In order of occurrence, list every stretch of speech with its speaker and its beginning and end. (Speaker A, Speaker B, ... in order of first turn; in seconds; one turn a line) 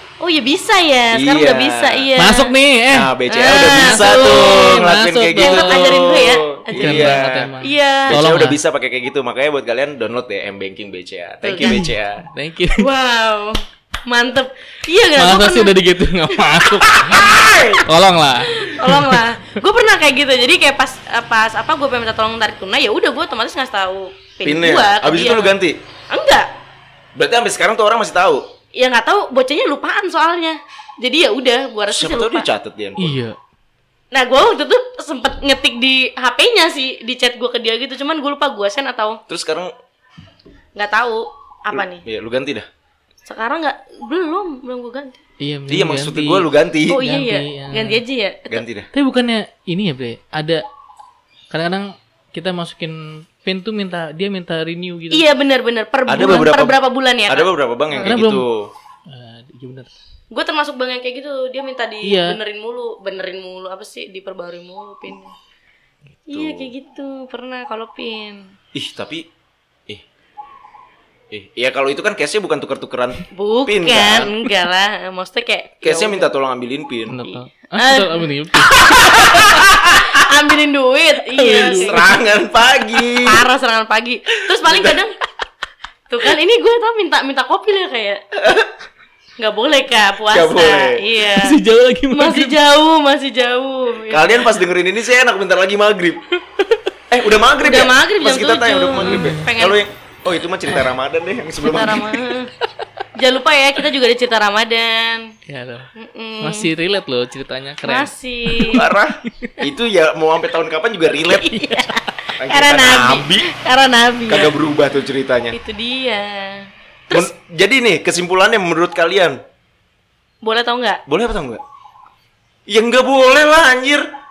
Speaker A: 0.2-2.5
Speaker B: 1.1-2.1
Speaker C: 2.2-3.1
Speaker B: 2.9-7.5
Speaker A: 3.3-4.8
Speaker C: 3.8-6.2
Speaker A: 5.4-8.2
Speaker C: 6.7-8.6
Speaker B: 8.1-12.3
Speaker A: 11.4-11.8
Speaker C: 11.6-12.9
Speaker A: 12.8-15.8
Speaker C: 15.2-19.2
Speaker A: 16.3-17.8
Speaker A: 18.4-25.6
Speaker B: 24.4-25.8
Speaker A: 26.1-26.5
Speaker B: 27.1-28.5
Speaker A: 28.8-32.5
Speaker B: 31.9-33.2
Speaker C: 33.0-33.4
Speaker A: 34.1-39.2
Speaker B: 39.3-39.7
Speaker A: 40.8-42.0
Speaker B: 41.7-42.7
Speaker A: 43.3-45.2
Speaker C: 45.4-48.0
Speaker B: 45.7-47.0
Speaker A: 46.9-48.6
Speaker B: 48.5-48.9
Speaker C: 48.9-50.6
Speaker C: 51.5-55.2
Speaker A: 55.1-58.1
Speaker B: 56.1-58.7
Speaker C: 58.0-58.5
Speaker C: 59.1-59.9
Speaker A: 60.3-65.3
Speaker C: 62.0-62.4
Speaker B: 66.1-66.7
Speaker A: 66.3-68.5
Speaker B: 68.7-69.3
Speaker B: 71.3-74.3
Speaker A: 73.3-76.3
Speaker B: 75.8-77.2
Speaker C: 77.1-79.6
Speaker A: 77.2-82.2
Speaker B: 78.8-80.2
Speaker C: 81.3-82.0
Speaker B: 81.7-83.5
Speaker A: 83.2-85.2
Speaker B: 84.6-85.0
Speaker A: 86.1-88.2
Speaker B: 88.4-88.7
Speaker A: 89.4-91.6
Speaker B: 90.3-91.1
Speaker C: 91.3-92.6
Speaker A: 92.1-94.6
Speaker B: 94.1-96.2
Speaker C: 96.6-96.9
Speaker B: 97.1-102.2
Speaker A: 97.6-99.8
Speaker C: 99.0-99.5
Speaker A: 101.6-102.5
Speaker A: 103.2-105.3
Speaker C: 105.5-105.9
Speaker A: 106.0-106.7
Speaker C: 106.4-109.6
Speaker A: 107.8-108.8
Speaker B: 108.7-111.6
Speaker A: 111.2-114.5
Speaker C: 111.6-112.0
Speaker B: 112.4-113.5
Speaker B: 114.3-115.6
Speaker A: 115.5-117.3
Speaker B: 117.1-119.4
Speaker A: 120.4-121.0
Speaker B: 121.1-121.6
Speaker B: 122.7-124.1